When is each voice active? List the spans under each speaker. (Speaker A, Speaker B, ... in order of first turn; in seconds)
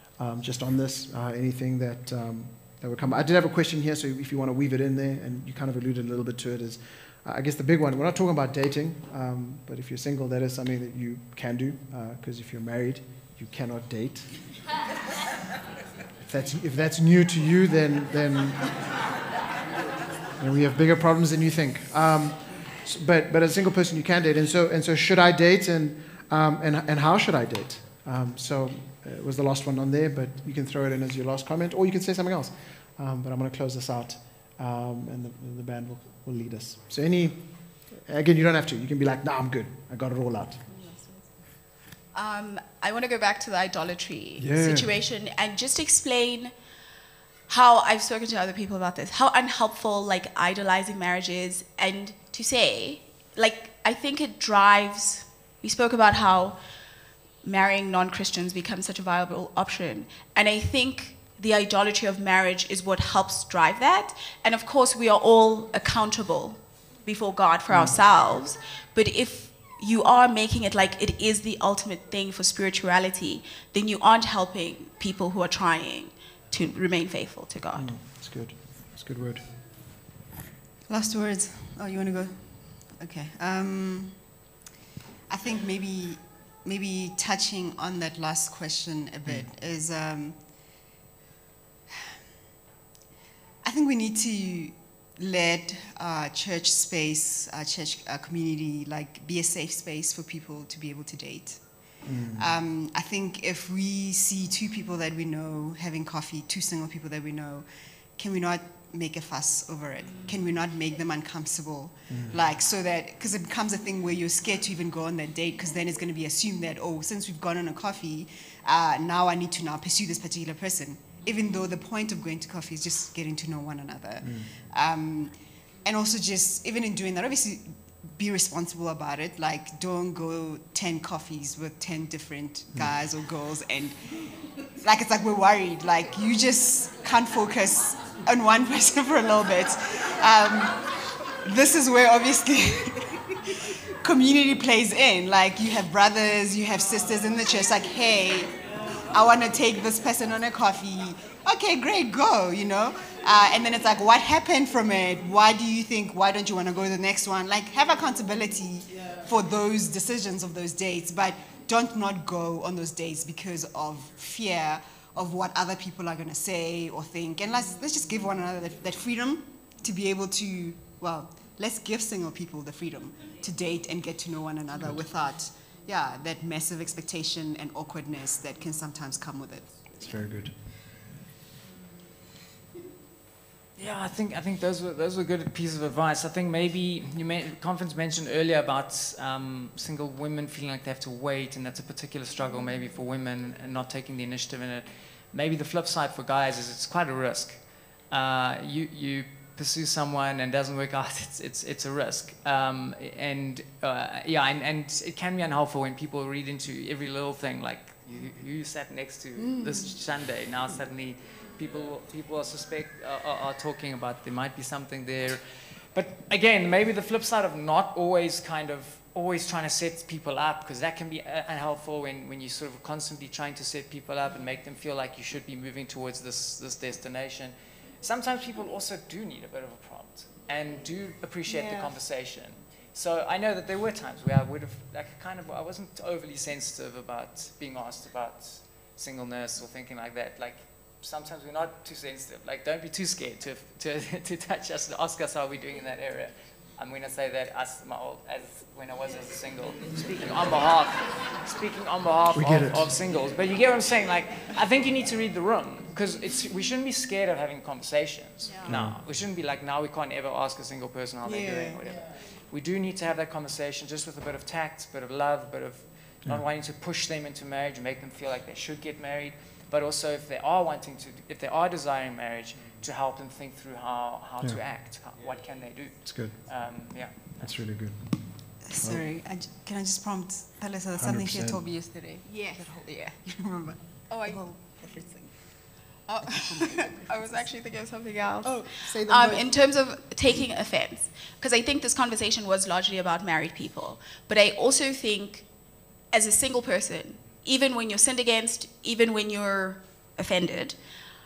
Speaker A: 0.2-14.3, 16.2-18.7, 20.4-37.4, 38.0-40.6, 44.4-44.9, 67.7-68.0, 77.8-79.4, 102.0-102.5, 112.1-112.4, 124.2-124.5, 180.0-180.5, 252.3-252.9, 258.6-259.0, 276.1-276.3, 277.4-278.1, 278.6-279.0, 281.0-281.6
Speaker B: 42.1-46.5, 47.5-56.6, 57.4-77.9, 284.1-284.4, 286.6-295.4, 296.1-300.8
Speaker C: 80.9-84.2, 85.3-90.4, 93.6-134.0, 134.8-140.8, 141.4-179.9, 209.4-209.9, 231.5-231.9, 261.2-261.8, 278.6-285.3, 286.1-287.4, 288.4-289.6
Speaker D: 183.8-277.6